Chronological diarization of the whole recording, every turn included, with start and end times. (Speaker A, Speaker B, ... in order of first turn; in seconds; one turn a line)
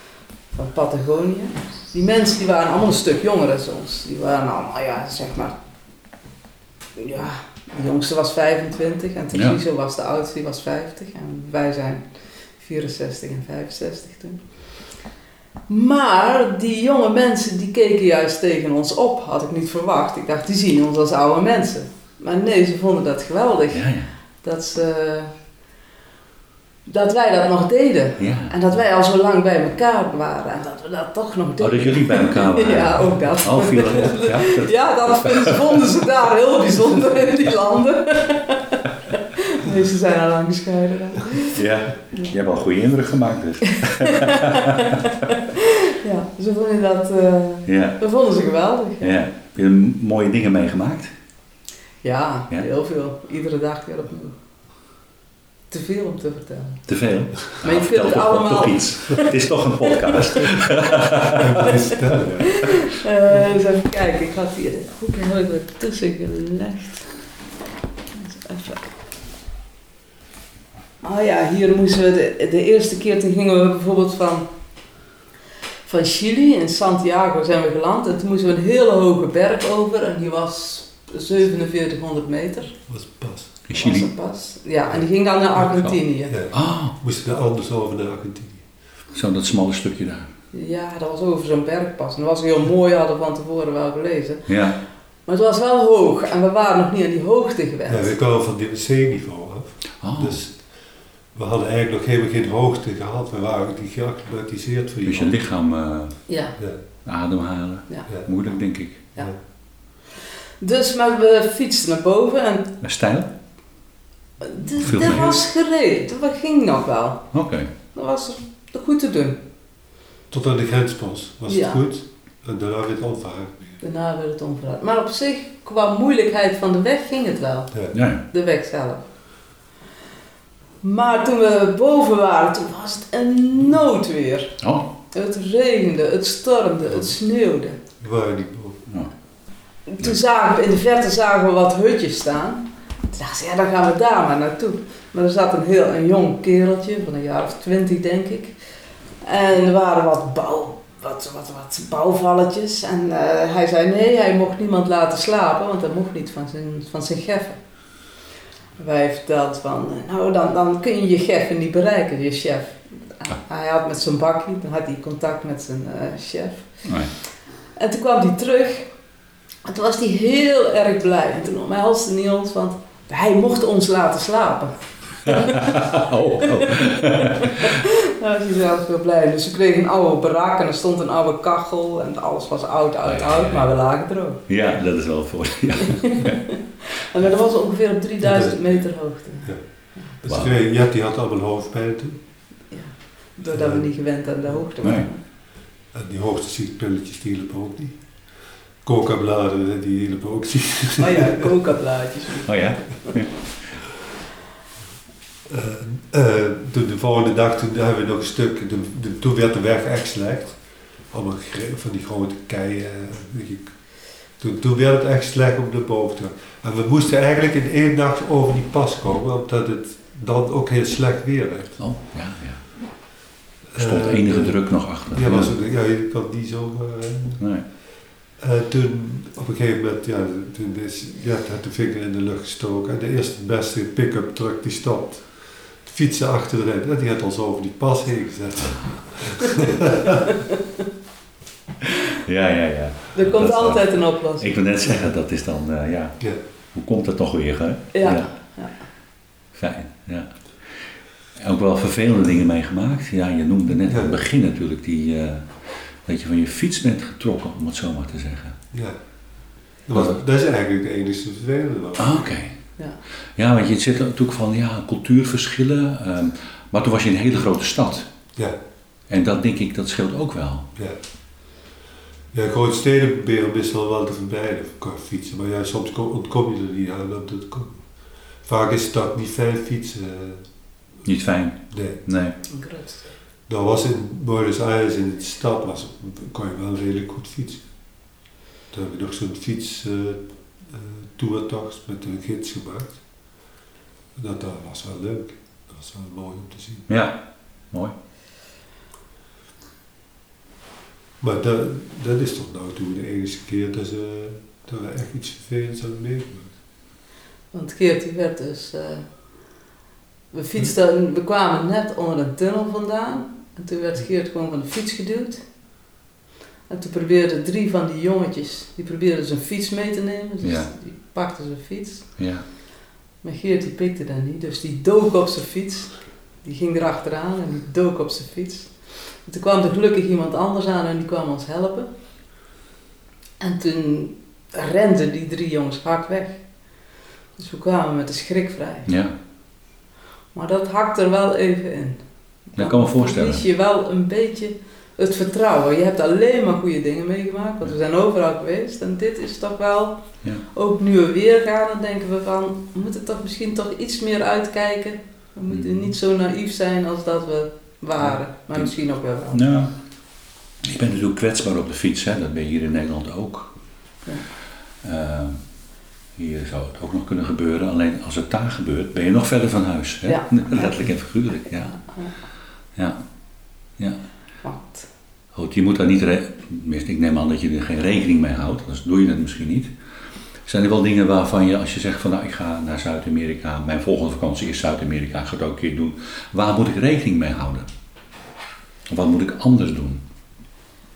Speaker A: 0.5-5.5
Speaker A: 7.0-12.0
Speaker A: 12.6-14.4
Speaker A: 15.7-23.9
Speaker B: 23.7-24.1
Speaker A: 24.4-25.3
Speaker A: 26.9-41.6
Speaker B: 28.2-28.5
Speaker B: 31.6-35.8
Speaker B: 41.5-45.2
Speaker A: 44.0-49.2
Speaker B: 47.6-48.0
Speaker B: 49.0-51.1
Speaker A: 52.0-54.4
Speaker A: 55.7-56.8
Speaker B: 56.9-61.7
Speaker A: 57.6-60.5
Speaker C: 61.2-62.8
Speaker A: 62.4-67.1
Speaker A: 68.1-68.9
Speaker A: 71.0-74.5
Speaker A: 75.8-82.8
Speaker C: 82.9-83.5
Speaker B: 83.7-84.1
Speaker A: 83.7-86.4
Speaker C: 86.3-88.6
Speaker B: 86.5-86.9
Speaker B: 89.1-90.3
Speaker A: 90.5-94.5
Speaker B: 94.5-94.8
Speaker A: 95.3-98.1
Speaker C: 97.9-100.7
Speaker B: 100.0-100.4
Speaker C: 101.3-105.3
Speaker B: 105.0-106.2
Speaker A: 106.3-106.5
Speaker B: 107.0-109.0
Speaker A: 110.6-112.8
Speaker B: 112.8-113.3
Speaker A: 114.4-117.3
Speaker B: 114.8-115.4
Speaker B: 117.3-117.7
Speaker A: 117.8-119.4
Speaker C: 120.3-123.8
Speaker A: 121.5-121.8
Speaker A: 123.8-129.0
Speaker B: 127.9-128.2
Speaker A: 130.8-134.6
Speaker B: 134.6-134.9
Speaker A: 135.1-137.8
Speaker C: 138.0-138.8
Speaker A: 139.9-148.6
Speaker A: 149.2-157.6
Speaker A: 158.8-166.7
Speaker B: 166.8-167.1
Speaker A: 167.8-168.9
Speaker A: 169.6-174.7
Speaker A: 175.2-184.4
Speaker B: 175.2-177.8
Speaker B: 183.0-183.7
Speaker B: 184.5-186.4
Speaker A: 185.9-186.6
Speaker A: 187.1-190.1
Speaker C: 188.2-188.7
Speaker C: 190.2-192.2
Speaker B: 190.2-190.5
Speaker A: 192.7-195.2
Speaker C: 193.5-193.9
Speaker B: 194.8-195.1
Speaker C: 195.9-198.0
Speaker C: 198.8-201.5
Speaker A: 201.0-203.1
Speaker B: 202.4-203.4
Speaker C: 205.5-213.7
Speaker C: 214.4-221.8
Speaker B: 221.8-222.6
Speaker C: 223.7-227.4
Speaker B: 223.8-225.5
Speaker B: 227.4-227.7
Speaker C: 228.4-240.3
Speaker B: 238.6-239.0
Speaker B: 242.1-246.2
Speaker A: 243.1-244.5
Speaker B: 246.7-248.3
Speaker A: 247.9-248.7
Speaker B: 249.5-250.3
Speaker B: 251.3-258.6
Speaker C: 253.8-254.2
Speaker C: 258.7-259.0
Speaker C: 259.9-262.2
Speaker B: 259.9-260.2
Speaker B: 262.0-262.6
Speaker B: 263.4-268.1
Speaker B: 269.1-270.7
Speaker C: 272.3-277.9
Speaker C: 278.4-280.4
Speaker B: 281.0-282.4
Speaker C: 281.7-282.0
Speaker A: 282.5-283.0
Speaker C: 283.5-287.6
Speaker C: 288.7-293.0
Speaker C: 294.1-296.9
Speaker B: 296.9-297.9
Speaker C: 301.2-306.5
Speaker A: 307.5-309.0
Speaker A: 310.3-315.4
Speaker A: 316.7-322.1
Speaker B: 320.4-320.7
Speaker B: 322.2-322.4
Speaker A: 323.2-328.7
Speaker A: 329.2-331.9
Speaker A: 333.4-336.4
Speaker A: 337.4-338.9
Speaker B: 338.9-339.1
Speaker A: 340.3-342.0
Speaker A: 342.5-350.0
Speaker B: 342.6-343.4
Speaker A: 350.5-359.4
Speaker B: 355.5-355.9
Speaker B: 358.0-358.7
Speaker B: 359.3-359.7
Speaker B: 360.6-363.5
Speaker B: 364.8-365.4
Speaker B: 366.2-371.7
Speaker A: 370.1-370.8
Speaker A: 371.5-372.1
Speaker B: 372.8-373.0
Speaker A: 374.4-374.9
Speaker B: 375.3-379.7
Speaker B: 380.4-387.7
Speaker B: 388.9-390.0